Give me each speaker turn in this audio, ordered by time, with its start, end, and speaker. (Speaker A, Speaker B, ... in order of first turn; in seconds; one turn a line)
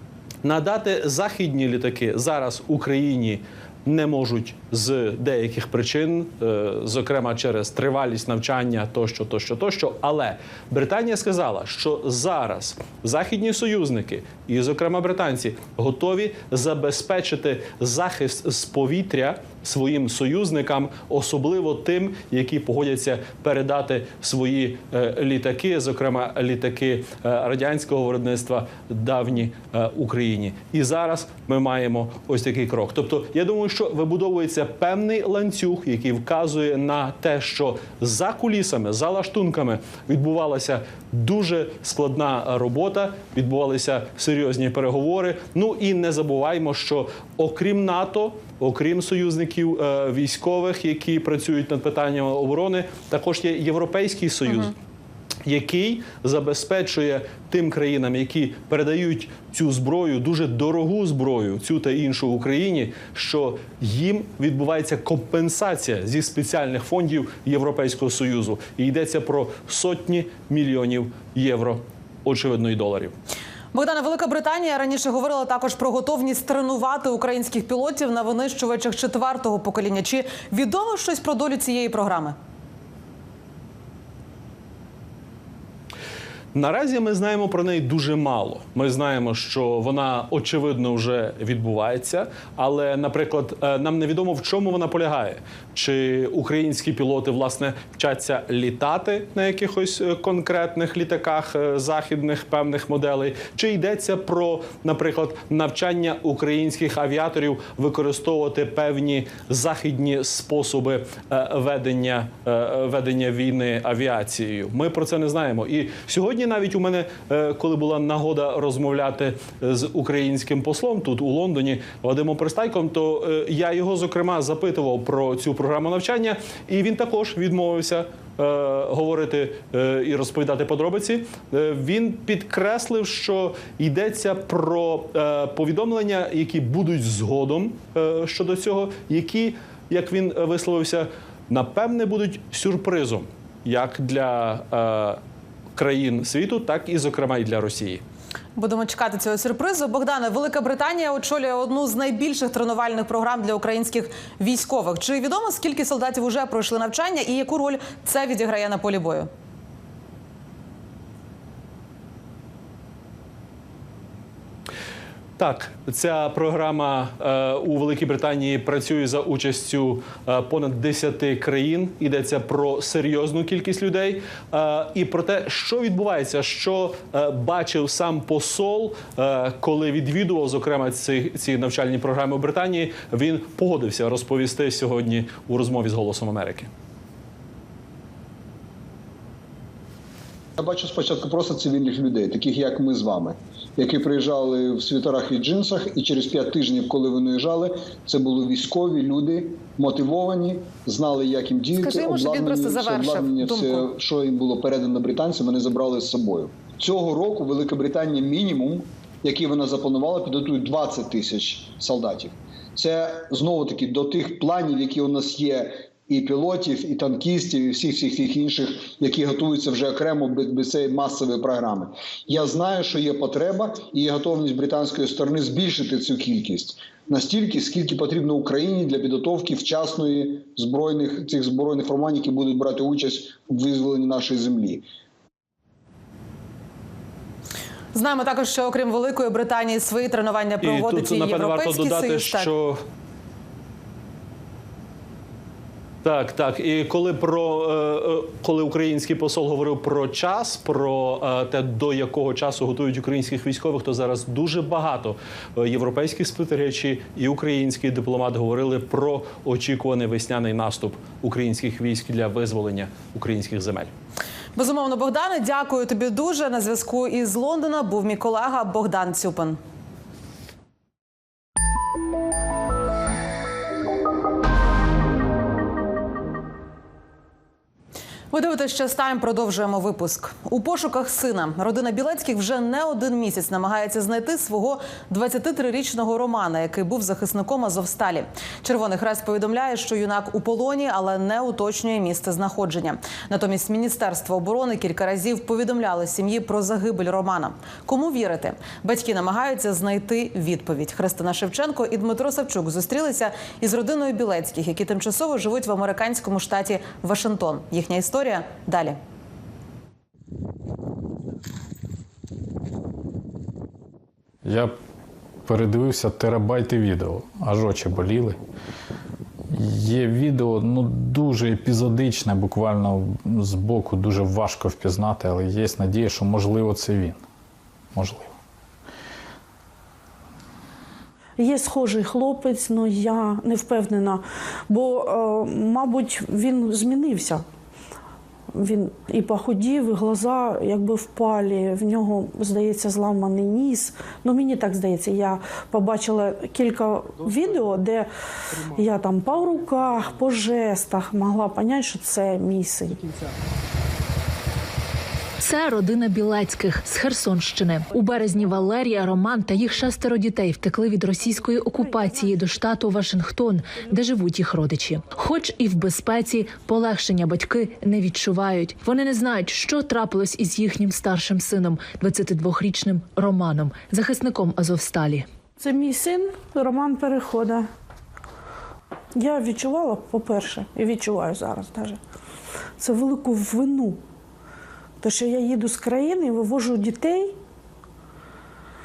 Speaker A: 0.4-54.7
Speaker B: 54.5-54.7
Speaker A: 55.5-73.1
Speaker B: 73.7-82.4
Speaker A: 86.5-145.2
Speaker A: 145.8-148.0
Speaker B: 148.6-159.3
Speaker A: 165.4-186.7
Speaker C: 190.6-234.8
Speaker B: 201.8-203.8
Speaker B: 237.9-242.5
Speaker A: 240.6-242.8
Speaker A: 246.0-263.9
Speaker B: 264.6-269.6
Speaker B: 278.3-309.0
Speaker D: 314.4-314.8
Speaker D: 315.5-318.4
Speaker D: 319.5-327.2
Speaker D: 327.9-328.4
Speaker E: 331.4-337.4
Speaker E: 338.5-348.1
Speaker E: 348.6-353.1
Speaker F: 355.4-375.3
Speaker E: 375.6-377.7
Speaker E: 379.1-382.0
Speaker E: 382.8-384.0
Speaker E: 385.0-387.4